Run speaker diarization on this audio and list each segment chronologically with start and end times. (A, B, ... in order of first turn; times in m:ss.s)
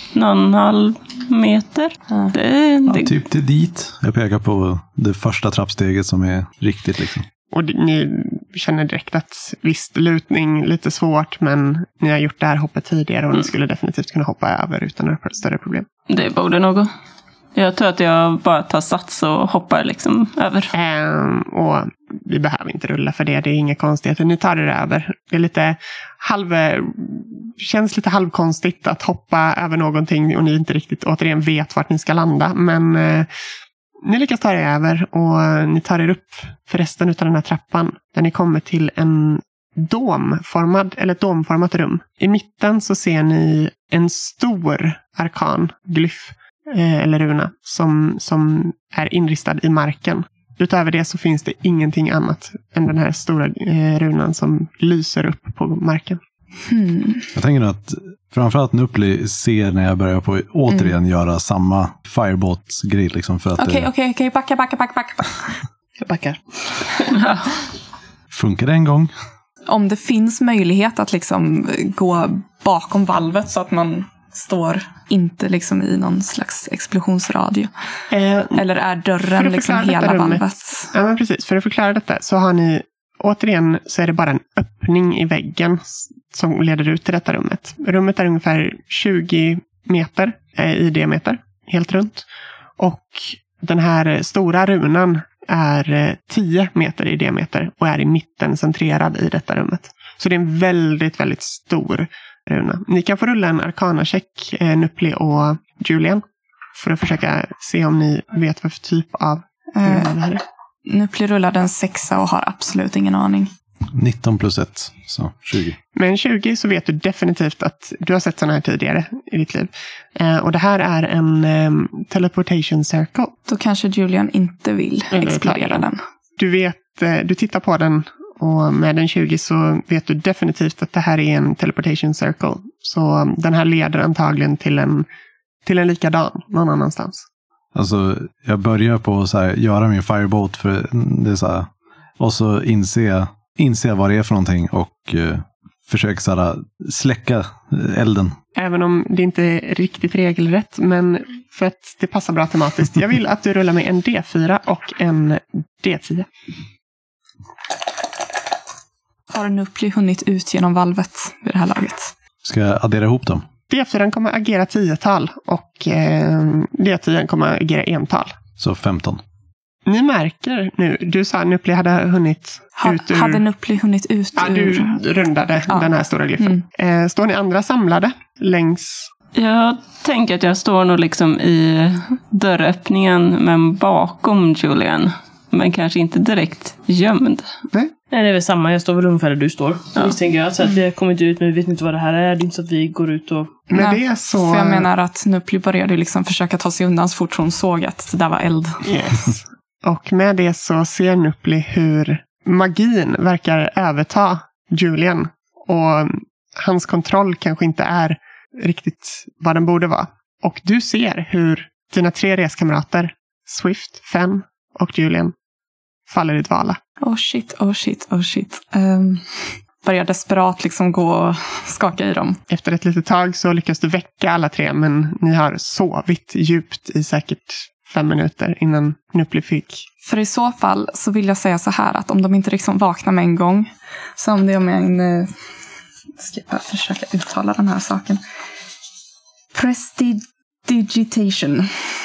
0:00.1-0:03.2 A
0:02.1-0:02.4 B
0:02.9-0:07.3 C
0:07.5-0:15.9 D
0:16.1-0:16.9 A
0:17.6-0:20.7 A
0:20.7-0:33.3 D
0:34.0-0:56.2 D
0:56.7-0:57.3 B
0:57.4-1:03.9 C
1:00.7-1:01.0 B
1:03.6-1:05.4 B
1:06.0-1:07.2 E
1:07.2-1:07.4 A
1:08.3-1:09.1 C
1:09.7-1:17.7 B
1:18.1-1:18.6 D
1:18.6-1:20.9 B
1:19.2-1:32.3 D
1:32.8-1:46.2 D
1:46.8-1:50.4 D
1:49.7-1:50.1 B
1:50.9-1:53.5 B
1:53.9-1:55.8 C
1:55.9-2:03.3 D
2:03.5-2:06.0 B
2:05.1-2:05.9 D
2:06.4-2:15.1 D
2:15.6-2:17.2 D
2:17.7-2:28.4 C
2:28.6-2:36.3 D
2:39.3-2:42.1 B
2:42.4-2:43.4 C
2:43.7-2:48.4 D
2:48.6-2:49.2 C
2:49.9-2:53.4 D
2:52.8-2:55.0 B
2:54.4-2:59.1 D
2:55.7-2:56.6 B
2:59.4-3:07.5 A
3:08.1-3:13.5 E
3:13.7-3:14.9 D
3:13.7-3:18.9 B
3:18.8-3:35.3 D
3:36.1-3:36.8 D
3:37.0-3:42.4 B
3:42.5-3:49.9 D
3:50.0-3:55.3 B
3:56.2-3:58.2 B
3:59.5-4:01.7 B